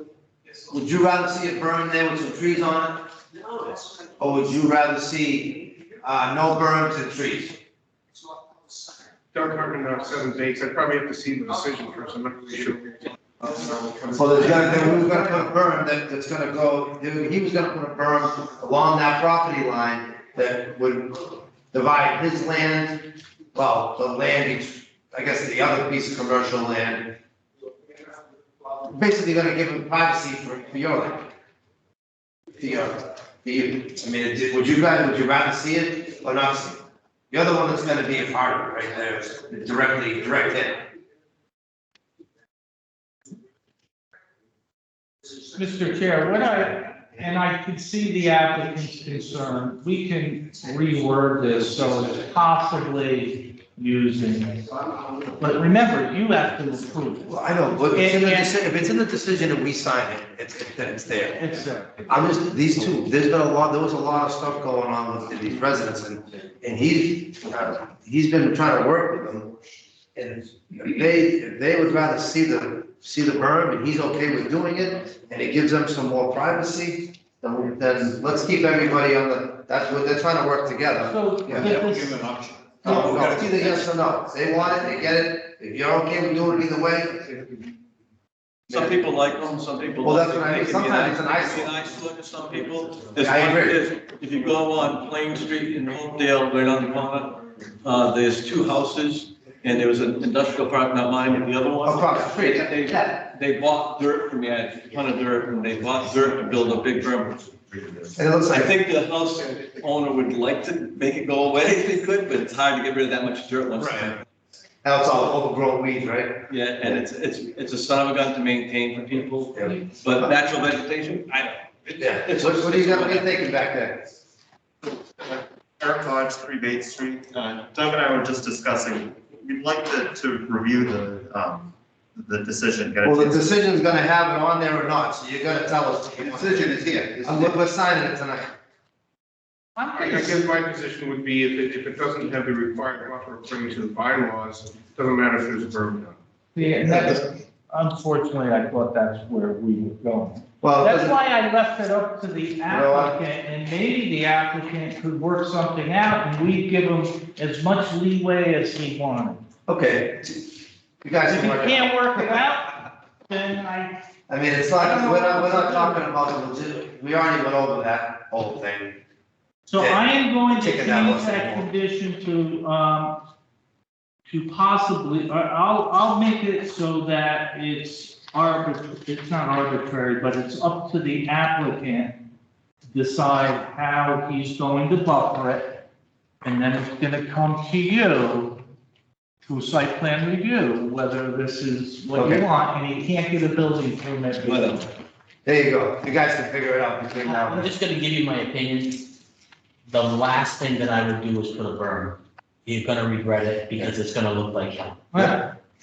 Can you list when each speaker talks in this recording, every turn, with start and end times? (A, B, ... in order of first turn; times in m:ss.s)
0:00.7-0:03.0 A
0:03.6-0:07.6 A
0:09.3-0:15.2 B
0:14.2-0:27.2 A
0:28.8-0:31.3 A
0:32.6-0:36.8 A
0:37.3-0:40.8 A
0:45.6-0:54.6 C
0:55.4-0:57.3 C
0:57.2-1:01.4 A
0:57.9-0:58.6 C
1:01.4-1:02.1 C
1:02.1-1:09.5 A
1:10.2-1:21.9 A
1:21.1-1:22.3 C
1:21.9-1:22.8 D
1:22.8-1:23.1 C
1:22.8-1:27.6 A
1:28.7-1:29.0 A
1:28.7-1:54.2 E
1:30.0-1:31.7 A
1:33.2-1:33.8 A
1:41.8-1:43.0 A
1:48.2-1:48.7 A
1:53.8-1:54.2 A
1:54.8-1:56.4 A
1:56.5-2:03.4 E
2:02.0-2:04.1 A
2:05.2-2:13.5 F
2:13.0-2:18.5 A
2:16.5-2:17.5 F
2:19.8-2:20.4 C
2:20.0-2:26.2 B
2:26.6-2:39.4 C
2:26.8-2:27.2 A
2:30.6-2:31.2 A
2:32.7-2:33.2 A
2:39.7-2:40.5 A
2:41.0-2:42.4 A
2:41.3-2:44.0 C
2:44.3-2:49.0 A
2:44.8-2:46.0 C
2:49.7-2:53.2 C
2:49.8-2:51.7 A
2:54.3-3:02.2 C
3:02.9-3:05.8 C
3:06.4-3:08.6 C
3:09.4-3:14.9 C
3:12.2-3:12.4 A
3:14.4-3:14.8 E
3:15.4-3:17.7 A
3:17.2-3:19.2 D
3:19.9-3:25.4 D
3:25.1-3:25.4 C